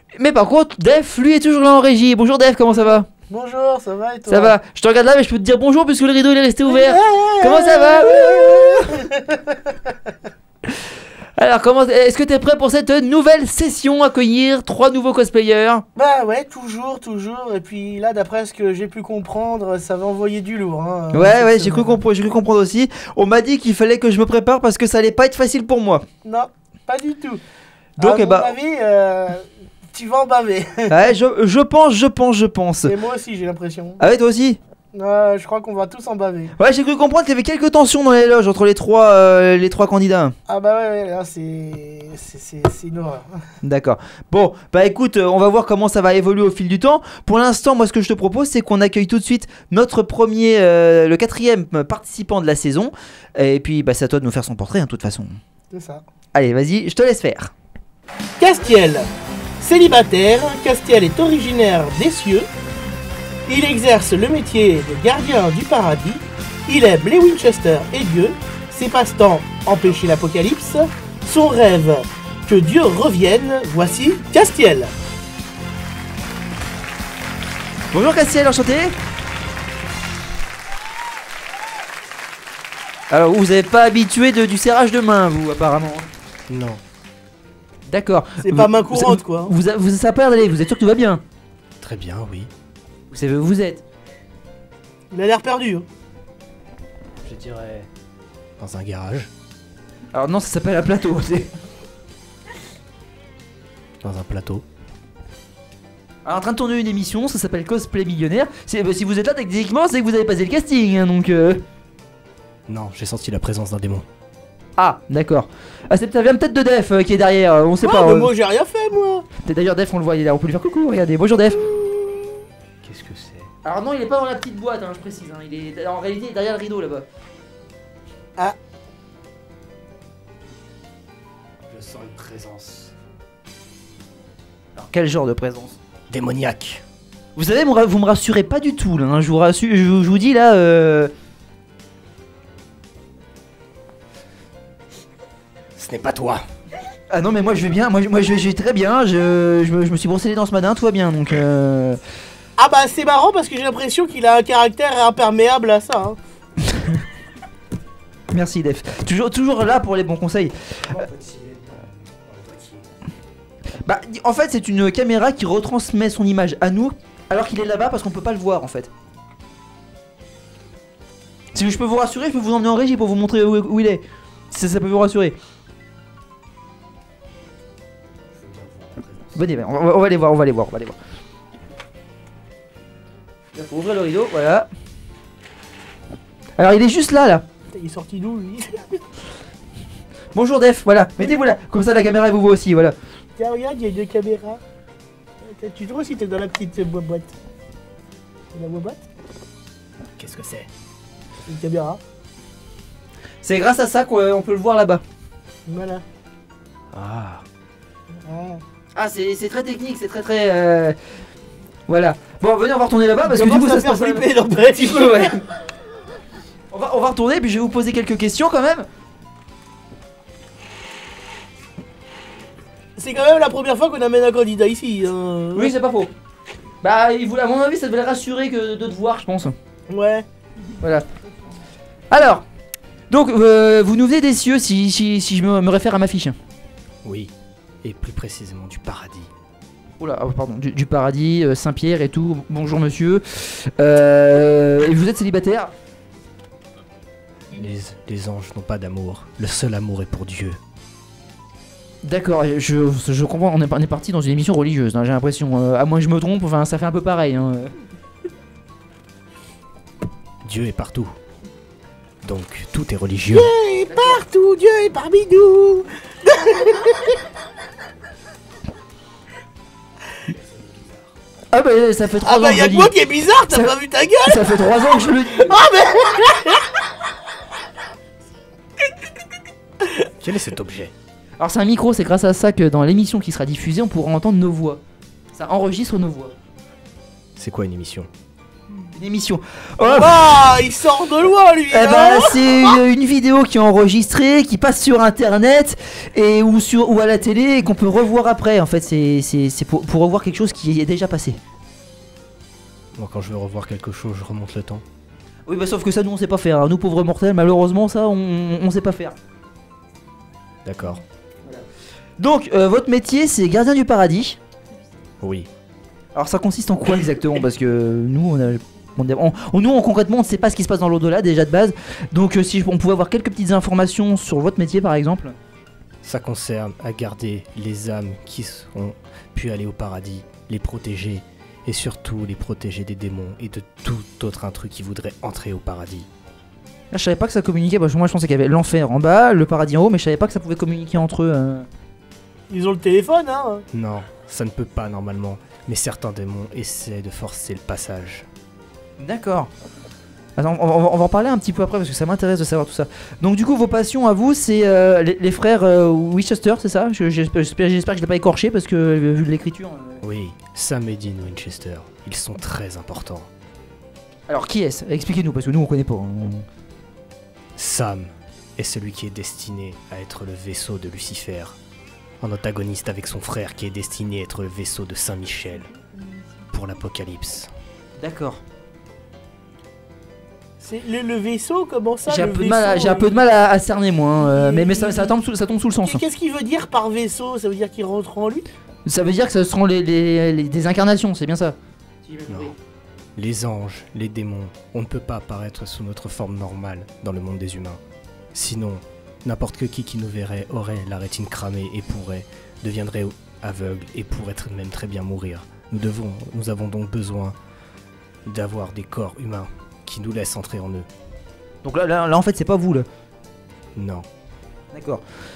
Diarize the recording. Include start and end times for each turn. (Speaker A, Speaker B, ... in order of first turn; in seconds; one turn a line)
Speaker A: 0.2-3.1
Speaker B: 3.3-4.5
Speaker A: 4.3-9.0
Speaker B: 6.7-10.0
Speaker A: 11.4-15.8
Speaker B: 16.0-22.0
Speaker A: 21.1-26.0
Speaker B: 26.2-27.4
Speaker A: 28.0-28.6
Speaker B: 28.0-30.9
Speaker A: 30.9-33.0
Speaker B: 32.8-34.0
Speaker A: 34.0-34.6
Speaker B: 34.9-36.5
Speaker A: 36.6-40.4
Speaker B: 40.5-43.4
Speaker A: 43.6-55.4
Speaker B: 55.7-56.0
Speaker A: 56.3-57.5
Speaker B: 58.4-59.1
Speaker B: 59.6-62.5
Speaker B: 63.5-74.9
Speaker A: 77.9-78.9
Speaker A: 83.1-86.1
Speaker C: 86.5-86.8
Speaker A: 87.9-91.2
Speaker B: 88.4-89.5
Speaker C: 91.8-92.5
Speaker A: 93.1-93.8
Speaker B: 95.1-95.9
Speaker C: 97.2-97.9
Speaker C: 98.6-99.3
Speaker A: 100.1-101.5
Speaker C: 104.0-104.7
Speaker A: 106.2-111.6
Speaker C: 112.7-114.1
Speaker A: 114.8-118.3
Speaker B: 117.8-119.3
Speaker A: 119.4-121.7
Speaker C: 122.8-123.5
Speaker A: 123.6-127.1
Speaker C: 131.7-132.9
Speaker A: 134.8-135.8
Speaker C: 136.1-136.8
Speaker A: 137.4-141.1
Speaker C: 145.8-146.4
Speaker A: 147.1-152.0
Speaker B: 152.6-156.2
Speaker A: 156.7-157.0
Speaker A: 158.3-161.0
Speaker C: 160.9-162.9
Speaker A: 163.8-168.9
Speaker A: 171.5-175.3
Speaker C: 178.3-179.4
Speaker A: 179.3-181.0
Speaker A: 183.5-184.7
Speaker A: 186.6-187.4
Speaker B: 187.7-189.0
Speaker A: 190.3-193.0
Speaker B: 191.2-191.5
Speaker B: 193.4-194.6
Speaker B: 195.4-197.3
Speaker B: 198.5-199.0
Speaker C: 200.2-200.7
Speaker B: 201.5-202.0
Speaker A: 203.4-205.0
Speaker B: 205.7-206.0
Speaker C: 206.9-207.4
Speaker B: 208.2-208.6
Speaker A: 208.9-211.0
Speaker A: 211.9-215.4
Speaker B: 213.2-215.4
Speaker A: 216.7-218.9
Speaker B: 223.0-225.7
Speaker A: 225.6-226.1
Speaker A: 226.8-229.6
Speaker B: 229.9-230.3
Speaker A: 230.8-231.1
Speaker A: 232.1-232.4
Speaker A: 233.1-236.3
Speaker C: 237.0-237.3
Speaker C: 237.8-239.3
Speaker A: 240.0-245.7
Speaker C: 247.5-250.6
Speaker A: 252.0-257.7
Speaker C: 260.4-261.1
Speaker C: 262.2-263.5
Speaker B: 263.3-267.2
Speaker A: 263.9-264.2
Speaker C: 270.3-271.0
Speaker A: 271.5-272.9
Speaker B: 272.2-274.5
Speaker A: 274.2-275.6
Speaker B: 275.4-276.8
Speaker C: 280.2-280.9
Speaker A: 281.4-284.8
Speaker A: 285.3-286.3
Speaker C: 287.4-288.1
Speaker A: 288.9-290.2
Speaker B: 289.8-292.8
Speaker A: 291.7-301.4
Speaker C: 303.0-304.8
Speaker A: 305.5-309.1
Speaker C: 310.6-311.0
Speaker A: 312.2-314.4
Speaker C: 315.2-315.5
Speaker A: 316.1-325.4
Speaker C: 326.0-336.1
Speaker A: 336.9-341.7
Speaker B: 342.5-343.6
Speaker C: 343.7-348.3
Speaker A: 349.0-349.5
Speaker A: 350.4-360.0
Speaker C: 360.0-363.3
Speaker A: 364.3-366.5
Speaker C: 367.6-371.6
Speaker C: 372.2-375.7
Speaker C: 376.5-377.5
Speaker A: 378.0-378.4
Speaker B: 380.6-383.2
Speaker A: 382.1-386.0
Speaker B: 384.2-385.2
Speaker B: 385.8-388.5
Speaker A: 388.9-392.6
Speaker C: 392.3-392.5
Speaker C: 393.2-397.8
Speaker C: 398.3-407.4
Speaker C: 408.3-410.9
Speaker A: 411.6-412.9
Speaker C: 413.8-414.1
Speaker A: 414.7-415.0